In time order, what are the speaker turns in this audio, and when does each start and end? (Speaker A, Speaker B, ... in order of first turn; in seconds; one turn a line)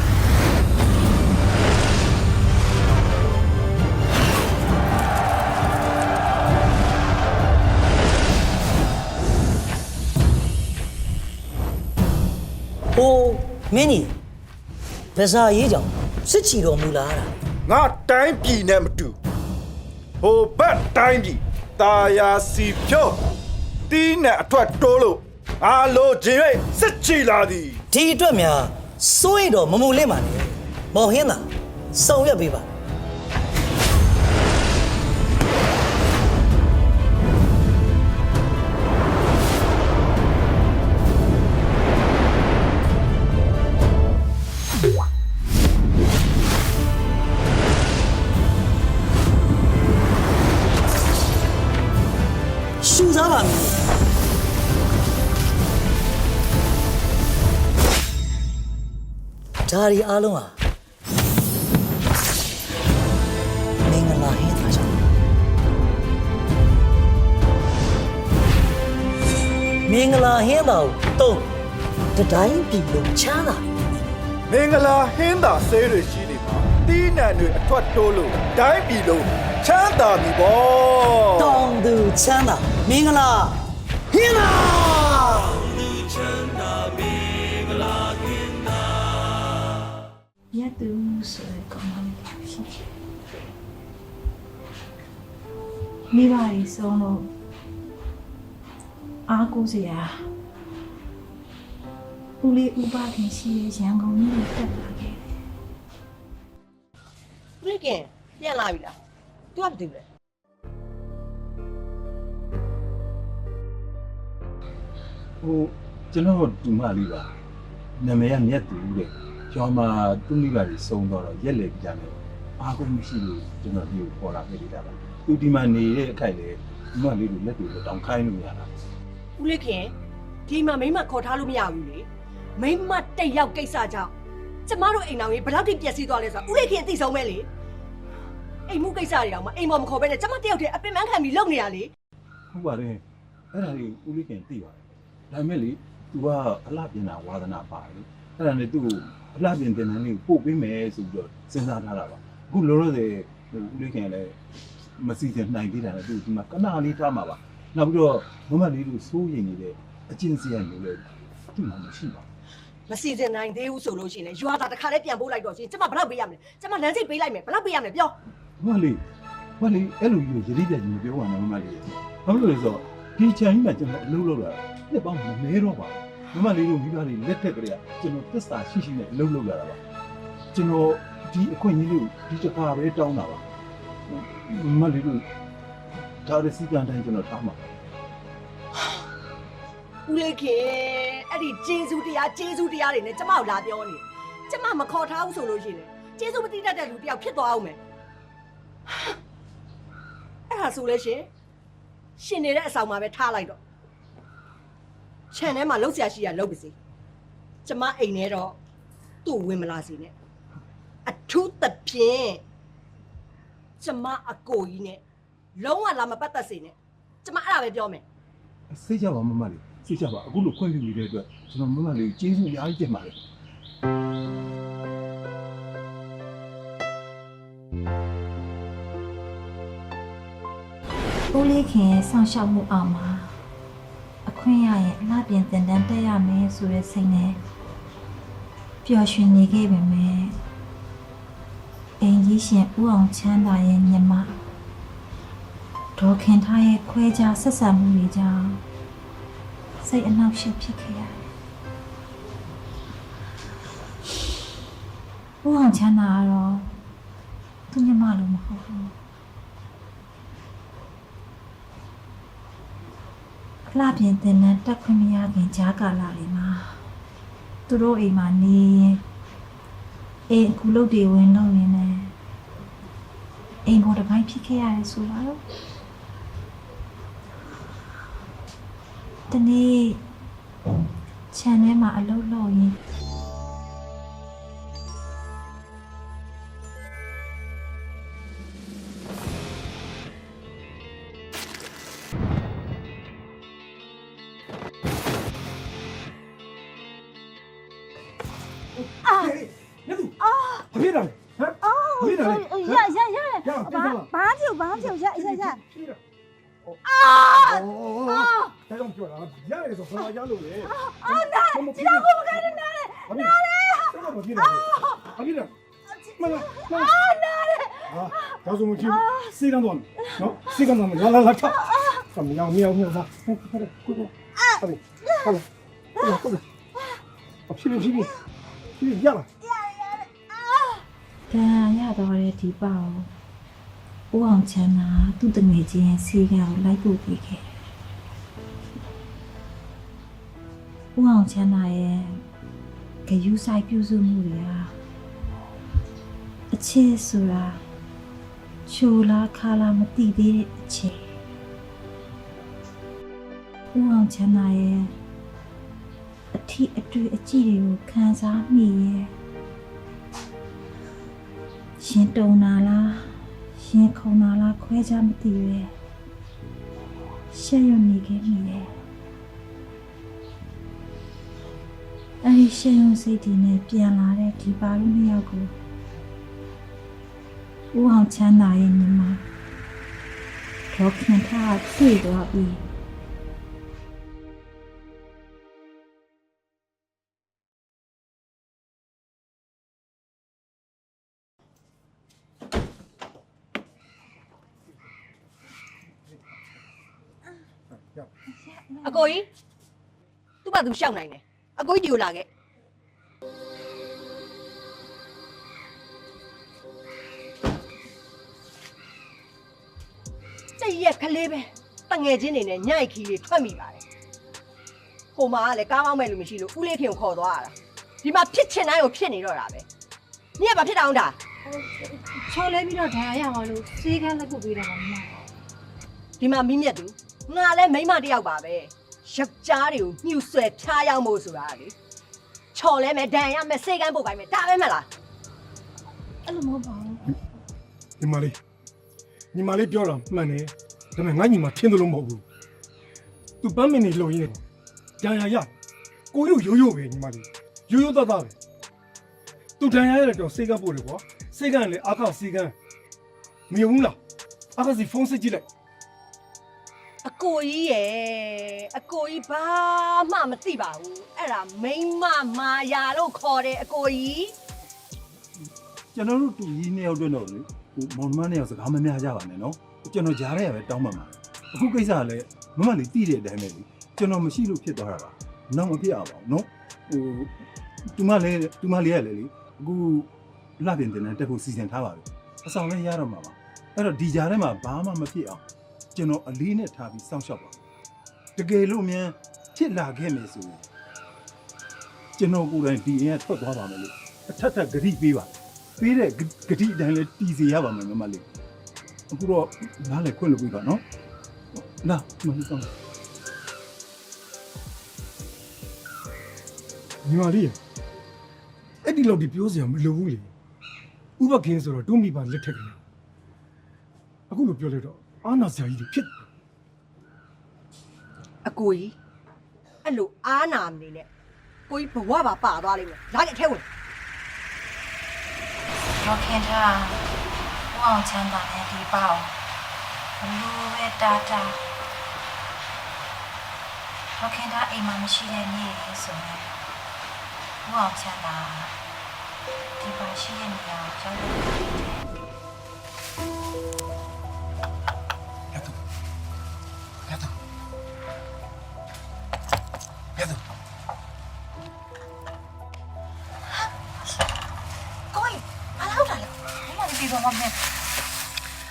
Speaker A: 12.9-14.1
Speaker A: 15.2-17.3
Speaker B: 17.6-19.2
Speaker B: 20.2-23.2
Speaker B: 23.9-27.8
Speaker A: 27.9-32.7
Speaker A: 52.8-53.7
Speaker A: 59.7-60.5
Speaker A: 63.8-64.9
Speaker A: 69.8-71.5
Speaker A: 72.2-73.7
Speaker B: 74.5-81.6
Speaker A: 81.4-83.6
Speaker A: 84.1-85.4
Speaker C: 90.5-92.9
Speaker C: 96.1-97.3
Speaker C: 99.3-100.3
Speaker C: 102.4-105.3
Speaker D: 107.6-108.9
Speaker D: 109.5-110.0
Speaker E: 115.4-117.3
Speaker E: 118.0-128.7
Speaker D: 129.4-129.9
Speaker D: 130.5-132.1
Speaker D: 132.6-134.1
Speaker D: 134.7-137.5
Speaker D: 138.7-141.9
Speaker E: 142.5-144.8
Speaker E: 145.3-154.4
Speaker E: 155.0-162.2
Speaker D: 162.9-168.2
Speaker E: 168.6-169.0
Speaker E: 169.6-179.8
Speaker E: 180.5-183.4
Speaker E: 184.1-185.2
Speaker E: 186.2-187.7
Speaker D: 190.1-197.8
Speaker D: 200.5-201.3
Speaker D: 202.2-203.6
Speaker D: 205.3-206.8
Speaker D: 207.6-208.6
Speaker D: 209.2-210.1
Speaker D: 211.1-212.4
Speaker D: 213.8-215.0
Speaker D: 215.6-218.0
Speaker E: 218.7-223.2
Speaker C: 231.3-233.4
Speaker C: 234.2-237.4
Speaker C: 238.8-240.4
Speaker C: 242.0-244.4
Speaker C: 245.9-248.6
Speaker C: 249.8-251.2
Speaker C: 255.4-256.8
Speaker C: 257.7-258.9
Speaker C: 263.7-266.8
Speaker C: 267.7-269.0
Speaker C: 270.3-272.1
Speaker C: 273.7-275.4
Speaker C: 279.3-280.1
Speaker C: 281.3-282.8
Speaker F: 299.1-299.4
Speaker G: 299.1-300.2
Speaker F: 300.2-300.7
Speaker G: 300.7-302.9
Speaker F: 301.7-305.6
Speaker G: 303.4-304.1
Speaker G: 304.7-306.0
Speaker F: 306.9-308.5
Speaker G: 307.6-315.5
Speaker F: 310.8-315.1
Speaker F: 316.1-319.4
Speaker G: 316.2-316.9
Speaker G: 317.9-325.4
Speaker F: 320.2-320.6
Speaker G: 326.0-326.4
Speaker G: 327.5-328.1
Speaker G: 328.8-329.3
Speaker F: 329.6-330.8
Speaker C: 331.3-333.1
Speaker C: 334.1-337.4
Speaker C: 340.9-342.2
Speaker C: 343.1-344.8
Speaker C: 346.5-347.6
Speaker C: 348.7-351.1
Speaker C: 353.7-355.0
Speaker C: 356.3-359.1
Speaker C: 361.8-365.7
Speaker C: 367.3-368.7
Speaker C: 372.2-375.5
Speaker C: 377.7-379.2
Speaker C: 380.7-382.7
Speaker C: 398.4-399.1
Speaker D: 398.8-399.3
Speaker D: 400.4-402.3
Speaker D: 410.6-413.8
Speaker D: 415.2-419.7
Speaker D: 420.4-421.2
Speaker F: 421.6-425.2
Speaker C: 422.9-423.3
Speaker C: 424.0-424.2
Speaker D: 426.2-431.7
Speaker D: 432.6-434.9
Speaker C: 436.3-436.9
Speaker F: 436.4-436.8
Speaker G: 438.0-438.4
Speaker G: 439.3-442.2
Speaker G: 443.4-444.4
Speaker G: 445.0-445.5
Speaker G: 446.1-448.4
Speaker G: 449.6-452.6
Speaker G: 453.5-454.0
Speaker G: 454.6-455.4
Speaker D: 457.1-464.3
Speaker E: 465.9-477.3
Speaker E: 477.9-485.4
Speaker E: 485.9-487.6
Speaker E: 488.4-490.6
Speaker E: 492.2-498.2
Speaker E: 499.1-500.8
Speaker E: 501.5-502.7
Speaker G: 507.0-507.6
Speaker G: 508.8-510.3
Speaker G: 511.2-512.8
Speaker G: 514.3-516.1
Speaker D: 518.5-519.0
Speaker D: 519.8-521.1
Speaker D: 521.7-523.6
Speaker C: 526.0-527.0
Speaker C: 527.7-529.4
Speaker C: 530.2-531.6
Speaker C: 534.2-536.6
Speaker C: 537.6-538.8
Speaker C: 539.8-542.0
Speaker G: 547.1-547.3
Speaker G: 550.2-550.4
Speaker C: 555.1-557.5